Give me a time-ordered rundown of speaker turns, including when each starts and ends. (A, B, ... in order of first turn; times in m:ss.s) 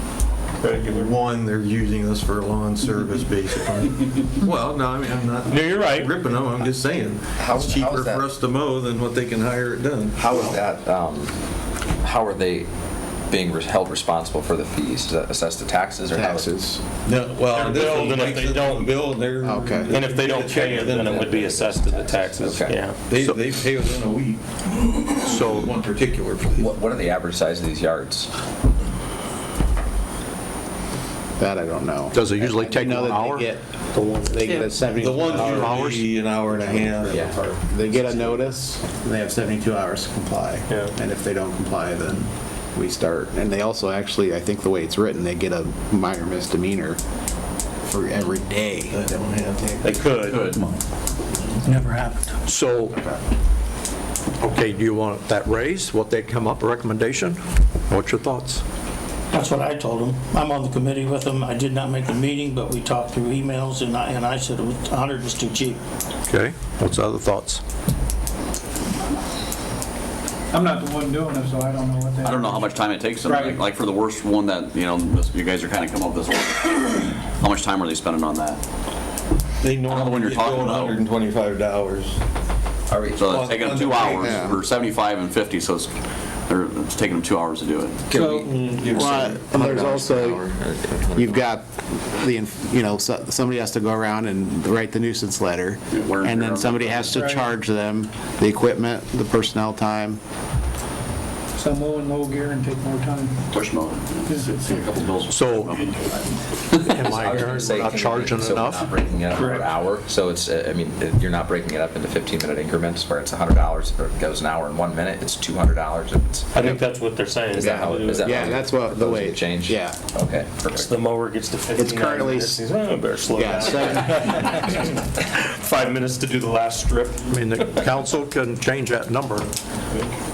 0:00.6-0:01.1 A
0:00.6-0:10.5 B
0:05.4-0:06.1 A
0:07.3-0:08.3 C
0:10.2-0:11.3 C
0:12.0-0:12.7 C
0:13.3-0:16.5 C
0:16.1-0:16.8 D
0:17.0-0:21.5 B
0:17.5-0:18.9 A
0:19.4-0:19.9 D
0:19.9-0:23.0 A
0:21.1-0:22.8 C
0:23.0-0:26.6 B
0:25.3-0:25.8 E
0:26.5-0:28.3 C
0:31.4-0:33.6 D
0:32.1-0:34.3 E
0:34.2-0:35.9 D
0:34.4-0:37.2 B
0:35.2-0:36.0 E
0:36.4-0:47.0 D
0:37.1-0:37.5 C
0:47.8-0:50.0 D
0:48.9-0:49.7 B
0:49.8-0:50.6 A
0:50.2-0:50.6 F
0:51.6-0:52.3 G
0:52.5-0:53.0 E
0:54.4-0:57.4 E
0:57.9-0:58.6 E
0:59.3-1:05.8 G
1:06.3-1:07.6 E
1:10.5-1:13.6 H
1:12.2-1:18.6 F
1:19.6-1:22.2 B
1:19.8-1:21.0 F
1:22.9-1:23.2 C
1:23.2-1:25.9 F
1:23.2-1:24.5 B
1:24.2-1:24.6 D
1:26.5-1:28.4 F
1:28.1-1:28.6 H
1:28.1-1:30.5 B
1:28.8-1:30.5 D
1:29.0-1:31.4 C
1:31.1-1:40.2 D
1:35.9-1:37.1 F
1:37.1-1:37.5 H
1:41.6-1:43.4 H
1:43.5-1:47.0 F
1:44.3-1:44.5 H
1:45.3-1:45.8 E
1:46.8-1:48.9 E
1:47.0-1:56.7 C
1:49.3-1:49.7 A
1:56.5-1:58.5 A
1:57.6-2:00.0 D
1:57.6-2:01.0 C
2:00.7-2:07.7 A
2:01.7-2:02.6 D
2:03.3-2:04.5 D
2:07.3-2:09.5 E